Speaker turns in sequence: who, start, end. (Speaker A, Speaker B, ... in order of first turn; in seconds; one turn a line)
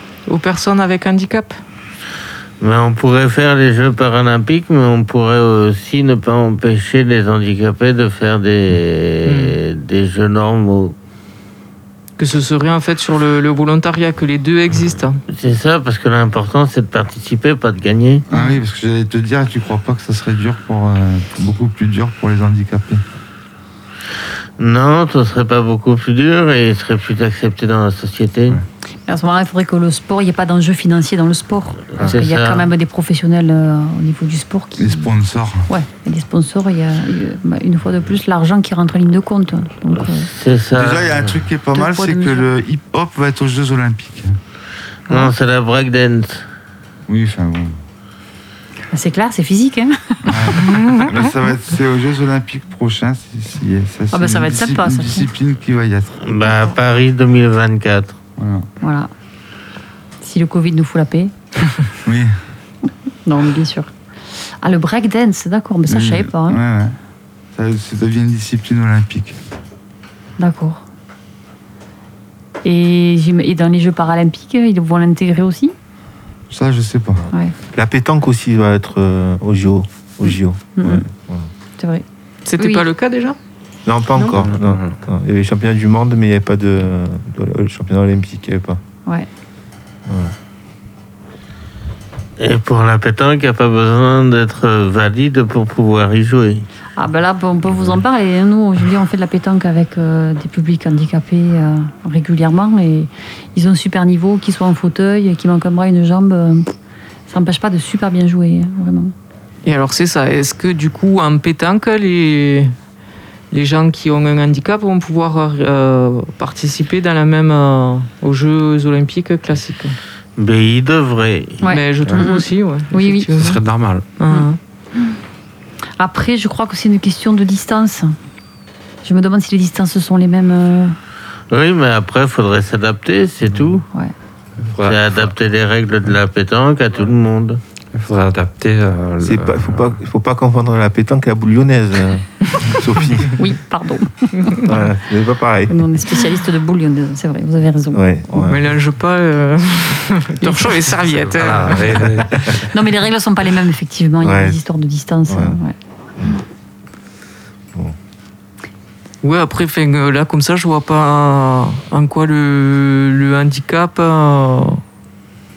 Speaker A: 0.3-1.6
Speaker B: 2.6-11.0
Speaker A: 9.3-9.6
Speaker A: 12.2-15.2
Speaker B: 15.3-18.2
Speaker C: 18.3-23.0
Speaker A: 18.3-18.6
Speaker B: 24.6-28.6
Speaker D: 29.1-35.1
Speaker B: 32.0-32.7
Speaker C: 34.8-35.7
Speaker D: 35.7-40.3
Speaker B: 40.2-41.4
Speaker C: 40.7-44.4
Speaker D: 41.7-42.5
Speaker B: 45.1-46.5
Speaker C: 47.1-47.8
Speaker D: 48.9-50.8
Speaker C: 50.2-56.2
Speaker A: 50.7-51.1
Speaker D: 54.1-55.3
Speaker B: 56.2-58.2
Speaker C: 58.4-58.7
Speaker D: 58.8-59.1
Speaker D: 60.2-61.3
Speaker C: 62.1-62.4
Speaker D: 63.2-63.9
Speaker D: 64.6-66.6
Speaker C: 65.9-67.0
Speaker C: 67.6-69.4
Speaker D: 70.4-70.8
Speaker D: 72.6-75.7
Speaker C: 76.5-77.3
Speaker E: 77.7-81.5
Speaker D: 80.3-81.0
Speaker D: 81.8-82.0
Speaker A: 82.5-83.4
Speaker D: 82.6-82.8
Speaker E: 83.8-88.8
Speaker F: 84.3-85.0
Speaker E: 90.1-90.3
Speaker B: 92.4-96.7
Speaker D: 97.0-106.7
Speaker D: 107.3-109.1
Speaker A: 109.7-112.7
Speaker A: 113.5-120.0
Speaker B: 120.4-121.6
Speaker D: 121.6-123.4
Speaker A: 121.7-123.6
Speaker F: 123.3-124.1
Speaker A: 124.2-124.6
Speaker D: 124.3-125.2
Speaker D: 126.0-128.2
Speaker D: 129.0-131.0
Speaker B: 131.5-133.9
Speaker F: 134.6-135.3
Speaker B: 134.8-137.6
Speaker F: 137.9-139.9
Speaker E: 139.2-143.4
Speaker D: 143.4-144.7
Speaker E: 144.6-145.8
Speaker D: 145.7-148.0
Speaker E: 147.9-148.6
Speaker A: 148.4-152.2
Speaker D: 150.4-150.9
Speaker F: 151.3-152.7
Speaker D: 152.6-155.7
Speaker E: 154.2-154.6
Speaker E: 155.3-155.6
Speaker A: 159.2-164.8